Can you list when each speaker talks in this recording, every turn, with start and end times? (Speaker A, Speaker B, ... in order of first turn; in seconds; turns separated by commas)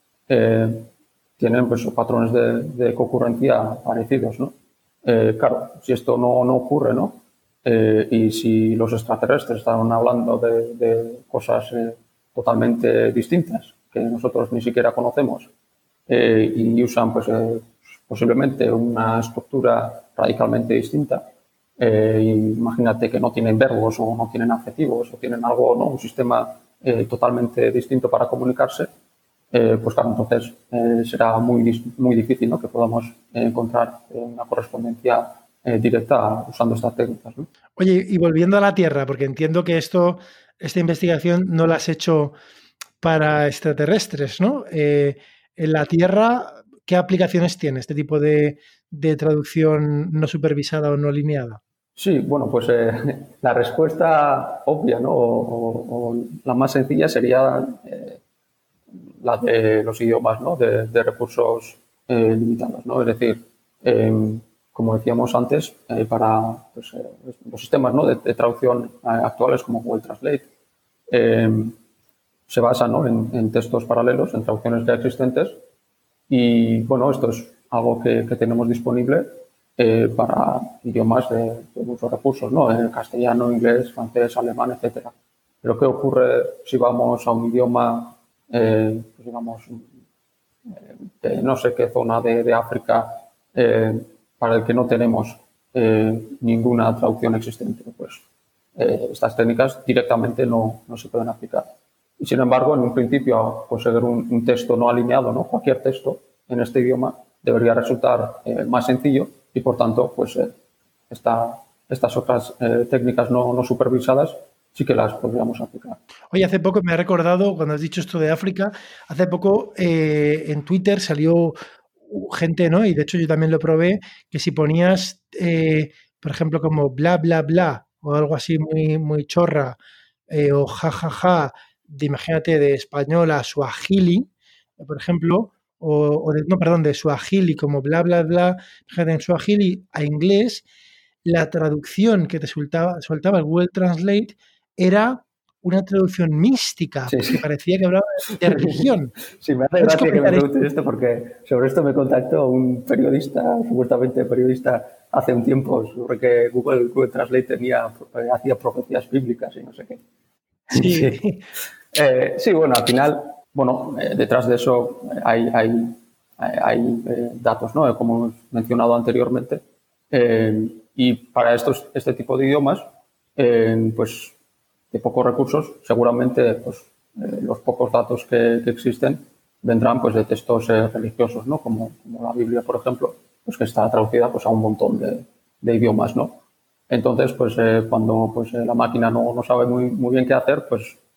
Speaker A: 0.3-15.5, Speaker A: 16.1-21.2, Speaker A: 21.8-28.9, Speaker A: 29.5-37.5, Speaker B: 37.8-42.4, Speaker B: 43.0-51.6, Speaker A: 52.0-58.2, Speaker A: 59.2-70.5, Speaker A: 71.1-71.8, Speaker A: 72.5-75.6, Speaker A: 76.3-89.9, Speaker A: 90.7-98.2, Speaker A: 98.8-101.7, Speaker A: 102.2-110.5, Speaker A: 111.1-116.0, Speaker B: 116.3-129.8, Speaker B: 130.3-140.7, Speaker B: 141.2-149.1, Speaker A: 147.1-147.4, Speaker A: 148.3-160.0, Speaker B: 149.8-150.6, Speaker A: 160.7-161.2, Speaker B: 160.7-161.4, Speaker A: 161.9-169.6, Speaker A: 170.1-172.8, Speaker A: 173.4-174.3, Speaker A: 174.9-191.0